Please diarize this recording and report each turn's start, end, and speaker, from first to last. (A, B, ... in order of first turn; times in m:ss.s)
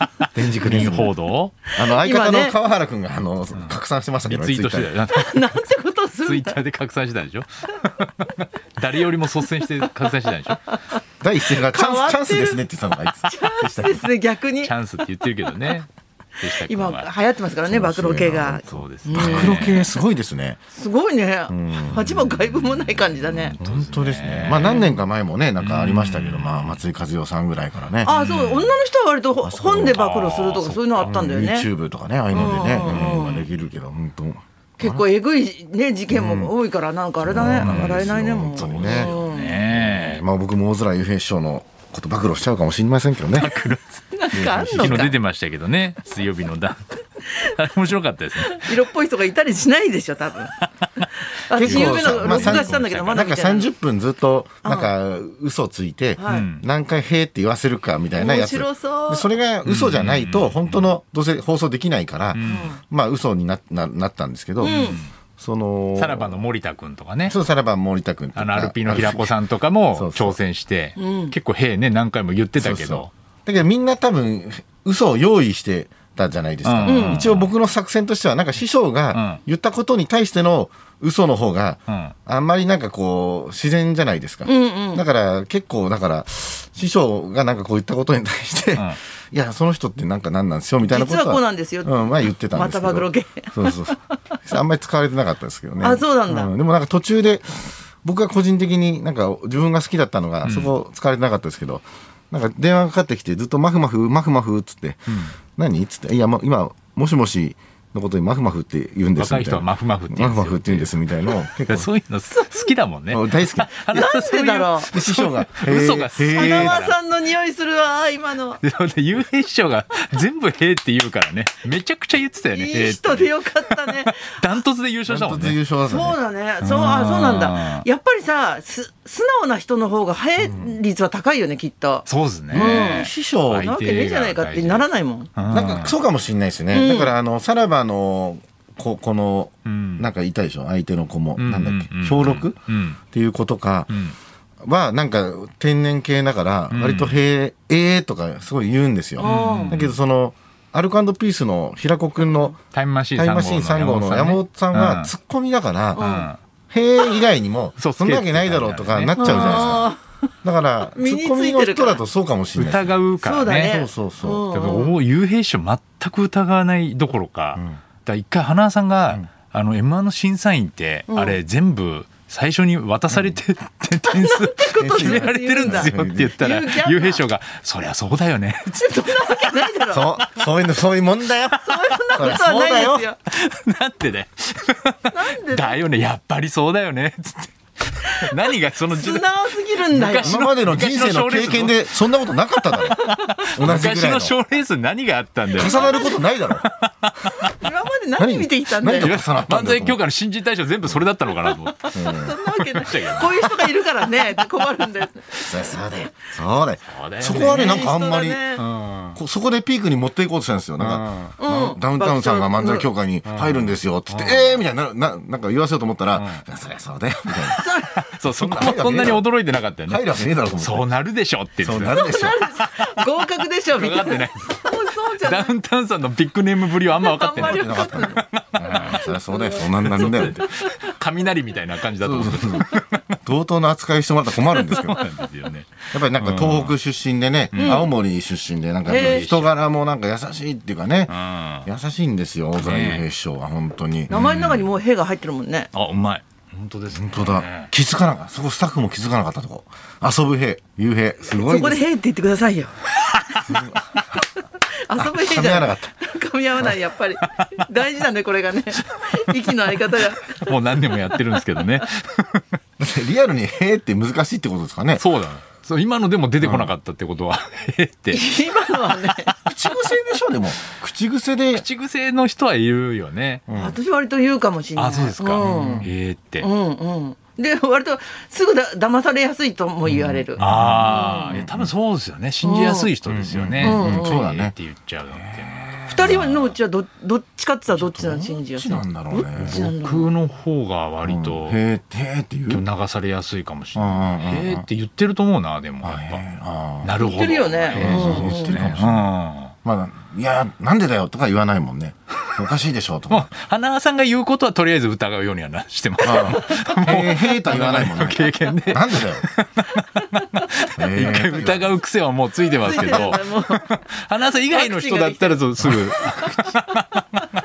0:00.3-0:01.1 A
0:00.4-0:01.6 B
0:01.7-0:04.9 A
0:01.8-0:02.6 C
0:03.5-0:05.7 B
0:05.1-0:06.6 C
0:06.2-0:10.6 B
0:11.2-0:14.0 A
0:11.6-0:12.6 C
0:13.2-0:14.7 C
0:14.6-0:15.9 B
0:16.4-0:17.1 B
0:16.5-0:19.9 C
0:17.6-0:20.6 A
0:18.6-0:19.9 B
0:20.8-0:23.6 C
0:21.5-0:28.1 A
0:23.5-0:25.0 B
0:25.6-0:26.8 B
0:28.0-0:31.7 C
0:28.1-0:28.8 B
0:29.4-0:35.0 A
0:30.0-0:31.3 B
0:32.3-0:33.4 C
0:32.6-0:33.4 B
0:34.8-0:39.6 C
0:36.1-0:36.5 A
0:37.2-0:39.1 A
0:37.3-0:40.2 B
0:39.7-0:43.6 A
0:43.3-0:48.9 B
0:44.1-0:45.1 C
0:44.3-0:45.1 A
0:48.4-0:53.7 C
0:51.6-1:06.4 A
0:51.6-0:53.2 B
0:54.6-0:54.9 C
0:56.2-0:56.5 C
0:56.3-0:56.6 B
0:58.2-0:59.3 C
0:59.6-1:00.9 B
1:02.3-1:02.7 B
1:02.4-1:02.8 C
1:04.6-1:05.0 C
1:04.6-1:05.1 B
1:06.0-1:07.4 B
1:07.3-1:09.3 A
1:08.4-1:13.1 B
1:09.9-1:10.4 A
1:11.0-1:11.3 C
1:12.6-1:51.9 A
1:16.6-1:17.5 B
1:16.8-1:17.2 C
1:19.1-1:19.4 B
1:21.9-1:22.1 B
1:24.4-1:25.0 C
1:30.8-1:33.8 C
1:35.8-1:36.5 C
1:40.4-1:40.7 B
1:49.2-1:57.0 B
1:52.3-1:52.7 C
1:53.1-1:54.0 A
1:53.9-1:54.9 C
1:54.9-1:56.8 A
1:56.4-1:58.6 C
1:58.6-2:05.6 B
2:02.5-2:04.4 C
2:05.1-2:06.2 A
2:05.9-2:15.3 C
2:06.6-2:07.8 B
2:10.4-2:10.7 A
2:12.0-2:16.0 B
2:12.5-2:13.7 A
2:15.5-2:24.0 A
2:16.7-2:17.1 C
2:19.6-2:20.1 B
2:21.4-2:23.0 B
2:23.9-2:24.2 B
2:24.6-2:32.6 A
2:26.7-2:27.2 B
2:29.2-2:29.8 C
2:29.2-2:30.0 B
2:32.7-2:35.1 B
2:33.2-2:36.1 A
2:36.0-2:36.3 C
2:36.0-2:36.4 B
2:36.7-2:39.9 A
2:37.8-2:39.9 B
2:39.2-2:40.0 C
2:40.4-2:42.9 A
2:41.0-2:42.0 C
2:42.6-2:43.8 B
2:43.2-2:44.9 C
2:43.5-2:44.5 A
2:44.5-2:59.7 B
2:51.1-2:51.4 C
2:54.1-2:57.2 C
2:54.8-2:56.3 A
2:58.8-3:00.2 C
2:59.9-3:03.0 A
3:01.6-3:03.2 C
3:01.9-3:02.3 B
3:03.3-3:17.5 B
3:05.1-3:05.8 C
3:08.1-3:10.4 C
3:10.2-3:14.3 A
3:12.9-3:13.4 C
3:15.5-3:16.2 C
3:15.5-3:16.6 A
3:17.6-3:19.2 C
3:18.2-3:20.0 A
3:19.0-3:24.2 B
3:21.4-3:25.4 C
3:21.9-3:22.4 A
3:25.4-3:28.6 A
3:26.9-3:27.9 B
3:27.2-3:28.6 C
3:28.6-3:29.2 B
3:29.1-3:37.6 A
3:30.8-3:31.3 B
3:31.4-3:32.9 C
3:33.2-3:34.6 B
3:36.1-3:36.4 B
3:37.3-3:42.8 B
3:37.6-3:38.1 C
3:38.2-3:39.2 A
3:39.8-3:40.9 A
3:41.6-3:42.4 A
3:41.9-3:45.5 C
3:43.7-3:53.0 B
3:46.9-3:48.2 C
3:47.4-3:50.4 A
3:48.7-3:50.8 C
3:52.0-3:52.7 A
3:53.2-3:55.0 A
3:54.6-3:56.7 B
3:55.9-4:04.5 A
3:57.5-3:57.9 B
3:57.5-3:57.9 C
3:58.8-3:59.3 C
3:58.9-3:59.5 B
4:01.1-4:01.7 B
4:02.6-4:03.0 B
4:04.1-4:05.7 C
4:04.1-4:04.6 B
4:05.7-4:07.7 B
4:06.9-4:11.8 A
4:11.3-4:20.5 C
4:13.5-4:14.0 A
4:15.0-4:15.9 A
4:20.2-4:22.4 B
4:22.8-4:25.0 A
4:25.0-4:28.2 B
4:26.4-4:26.7 A
4:28.1-4:29.3 C
4:29.4-4:31.6 A
4:31.5-4:33.4 B
4:33.5-4:33.8 A
4:33.5-4:35.9 C
4:34.8-4:36.5 B
4:35.4-4:35.9 A
4:36.4-4:41.4 C
4:39.9-4:41.7 A
4:40.4-4:46.5 B
4:42.4-4:42.9 C
4:43.0-4:44.5 A
4:43.6-4:44.2 C
4:45.1-4:46.4 A
4:45.8-4:50.1 C
4:47.7-4:49.6 A
4:49.4-4:51.6 B
4:51.0-4:52.6 A
4:52.5-4:56.2 B
4:53.7-4:54.7 A
4:55.8-4:57.0 A
4:56.8-4:59.5 B
4:57.0-4:58.6 C
4:57.7-4:59.1 A
4:59.6-5:03.3 A
5:03.1-5:17.2 B
5:06.0-5:09.2 A
5:10.8-5:11.8 A
5:12.5-5:13.8 C
5:12.8-5:13.1 A
5:14.5-5:16.4 C